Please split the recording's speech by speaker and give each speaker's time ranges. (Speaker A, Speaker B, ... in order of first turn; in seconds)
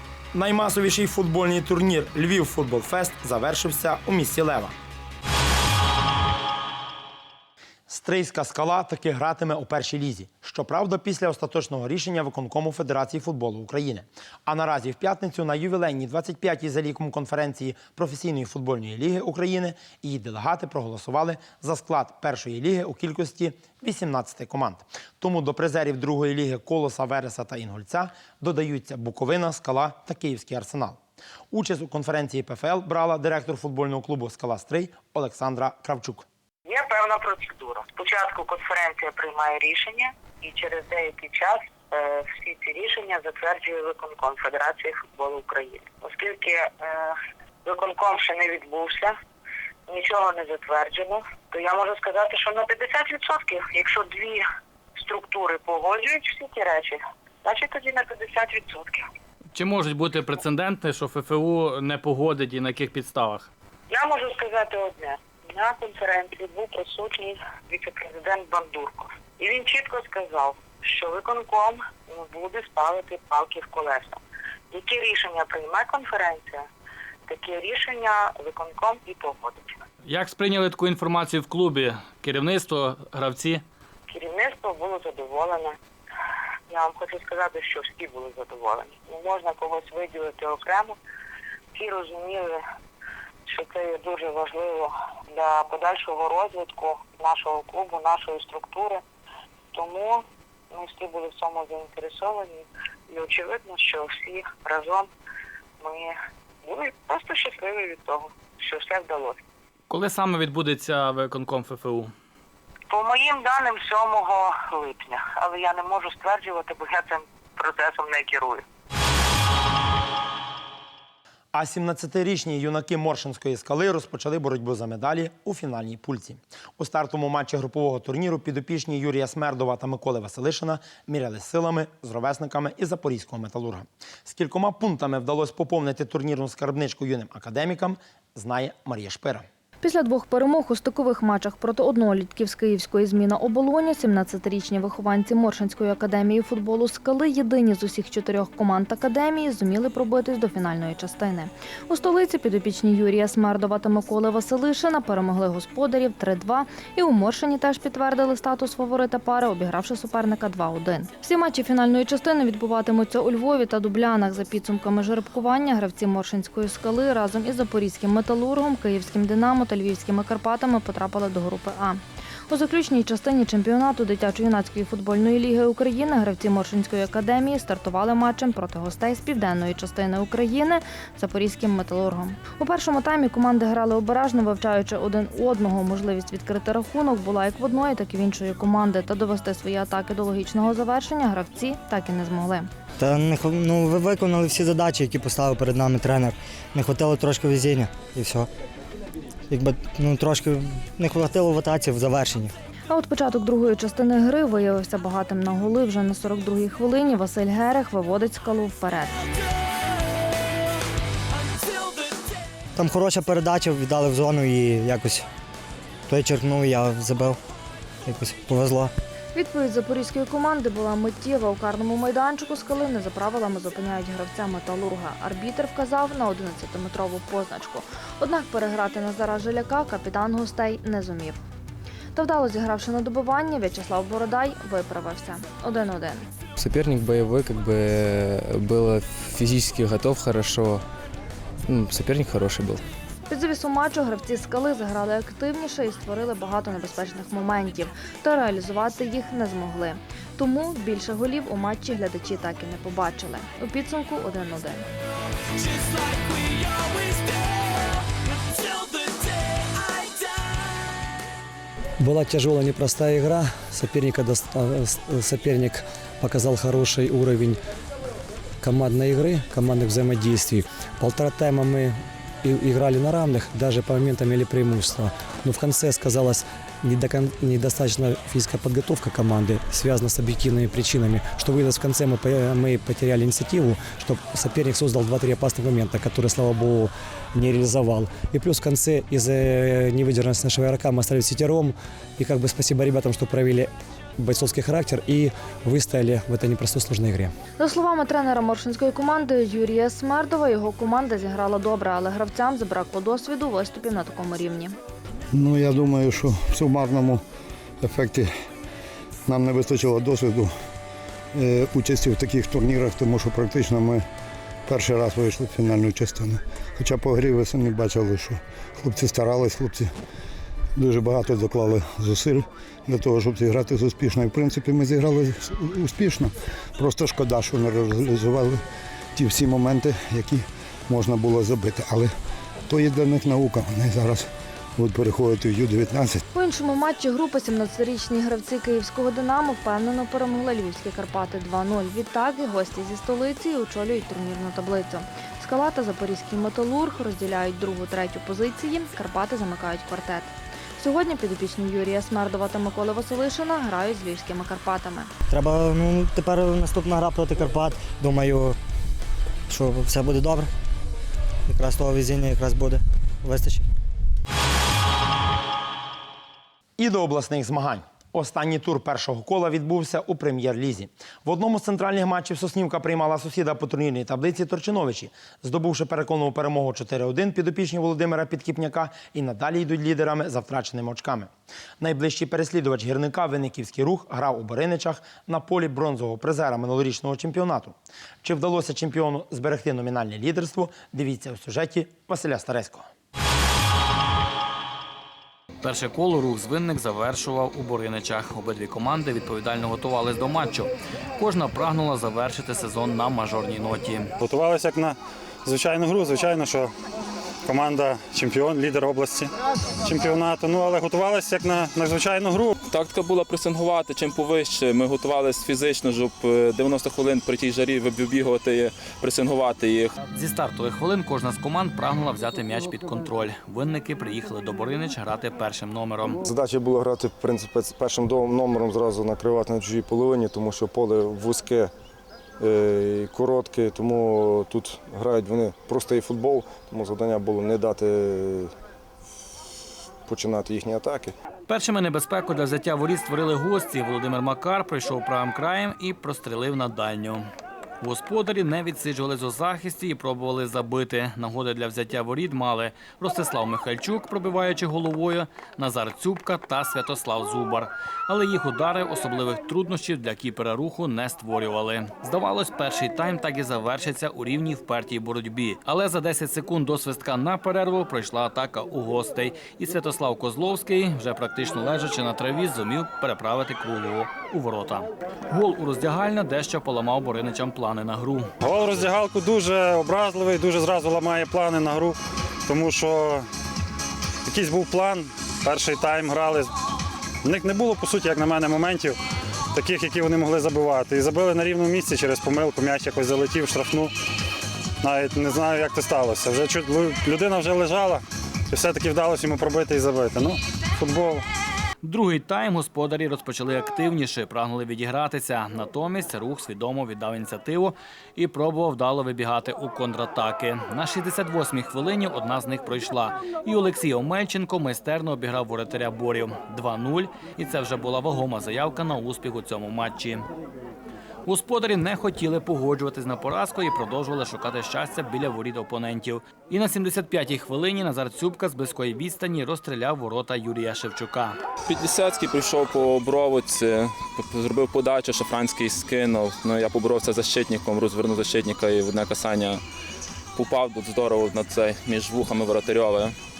Speaker A: 0.3-4.8, 7.9-31.0, 31.5-36.2, 121.5-139.4, 366.8-392.9
Speaker B: 36.7-47.1, 47.6-49.1, 49.9-54.4, 55.0-59.0, 63.9-74.2, 74.7-76.6, 77.3-79.8, 84.1-85.8, 86.7-91.0, 91.7-92.6, 93.5-99.0, 99.7-105.1, 105.8-109.4, 112.9-118.6
Speaker C: 59.5-63.5, 80.0-83.6, 109.9-112.1, 395.6-404.1, 420.1-426.2, 441.5-447.2, 447.8-478.3, 501.8-520.2, 521.2-531.4
Speaker D: 139.8-192.7, 202.9-209.2, 219.3-231.4, 232.1-236.3, 243.3-254.9, 297.6-304.8, 336.3-355.1
Speaker E: 193.0-198.5, 199.5-202.5, 212.8-215.2, 216.1-217.4, 218.0-218.9, 355.3-358.6, 359.5-360.5, 361.5-363.6
Speaker F: 236.6-240.8, 241.7-242.8
Speaker G: 262.0-267.6, 268.6-297.3
Speaker H: 305.3-307.2, 307.8-308.3, 309.2-310.5, 311.3-314.0, 314.6-319.9, 320.7-328.6, 329.1-332.1, 332.7-336.2
Speaker I: 404.2-406.7, 407.5-409.3, 409.8-412.5, 478.4-483.2, 484.3-486.5, 487.2-489.0, 489.5-493.9, 494.8-501.2
Speaker J: 412.6-419.9, 531.7-539.6, 540.3-543.1
Speaker K: 426.2-431.7, 432.4-438.5, 440.1-441.1